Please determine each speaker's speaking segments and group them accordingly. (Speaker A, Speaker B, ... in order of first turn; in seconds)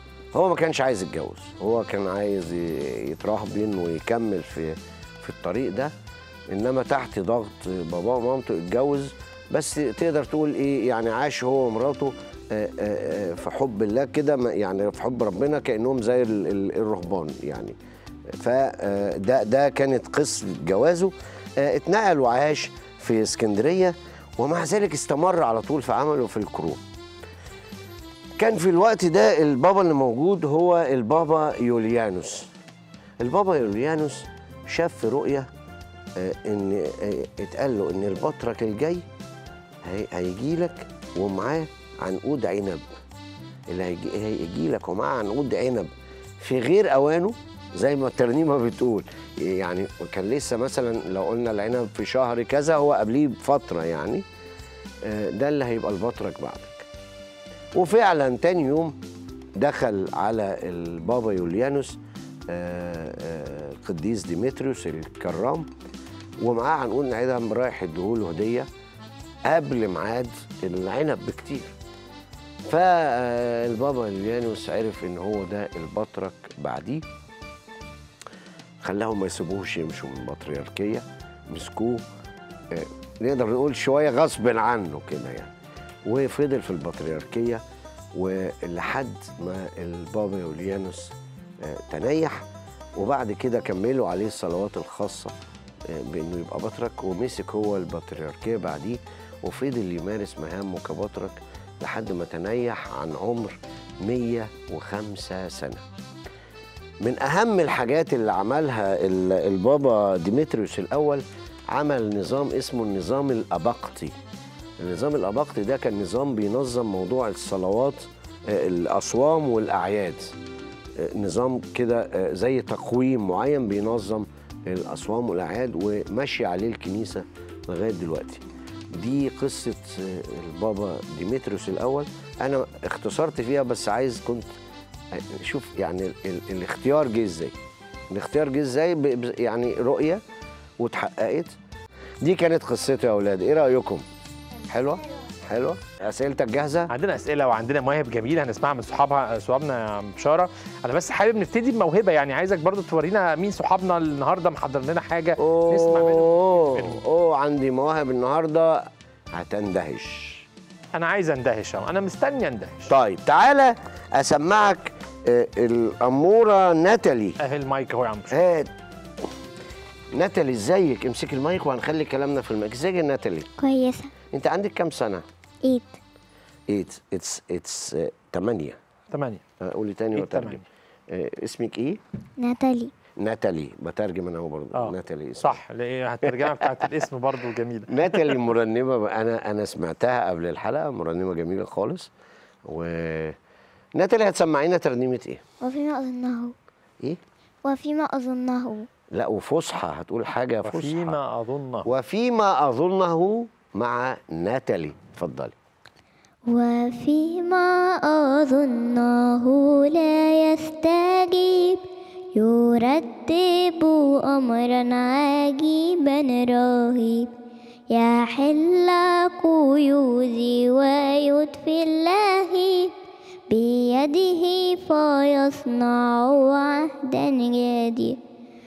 Speaker A: 0.3-5.9, 6.5-17.8, 18.3-26.8, 28.4-32.5, 33.2-35.5, 36.2-39.0, 39.9-42.8, 43.7-54.2, 55.0-56.9, 57.8-59.0, 59.6-62.0, 62.5-65.7, 66.4-68.7, 69.5-71.7, 72.7-77.0, 78.8-82.0, 82.7-85.5, 86.1-87.6, 88.1-92.4, 93.0-105.8, 107.0-114.1, 114.8-120.3, 121.0-134.5, 135.1-137.5, 138.1-140.2, 140.8-141.5, 142.2-144.0, 144.7-146.9, 155.4-160.4, 162.9-167.4, 168.3-168.7, 170.1-173.5, 174.3-175.2, 176.7-178.8, 179.6-182.0, 183.2-185.6, 187.9-192.1, 192.7-193.4, 194.0-195.4, 199.1-201.2, 201.8-205.5
Speaker B: 146.9-157.0, 160.9-162.9, 167.4-168.4, 179.1-179.4, 180.2-180.6, 184.7-188.3, 200.6-201.9
Speaker C: 173.6-174.1, 175.6-176.0, 182.4-182.9, 195.6-196.6, 197.7-198.9, 206.5-211.8, 212.3-217.3, 217.9-222.9, 223.5-228.2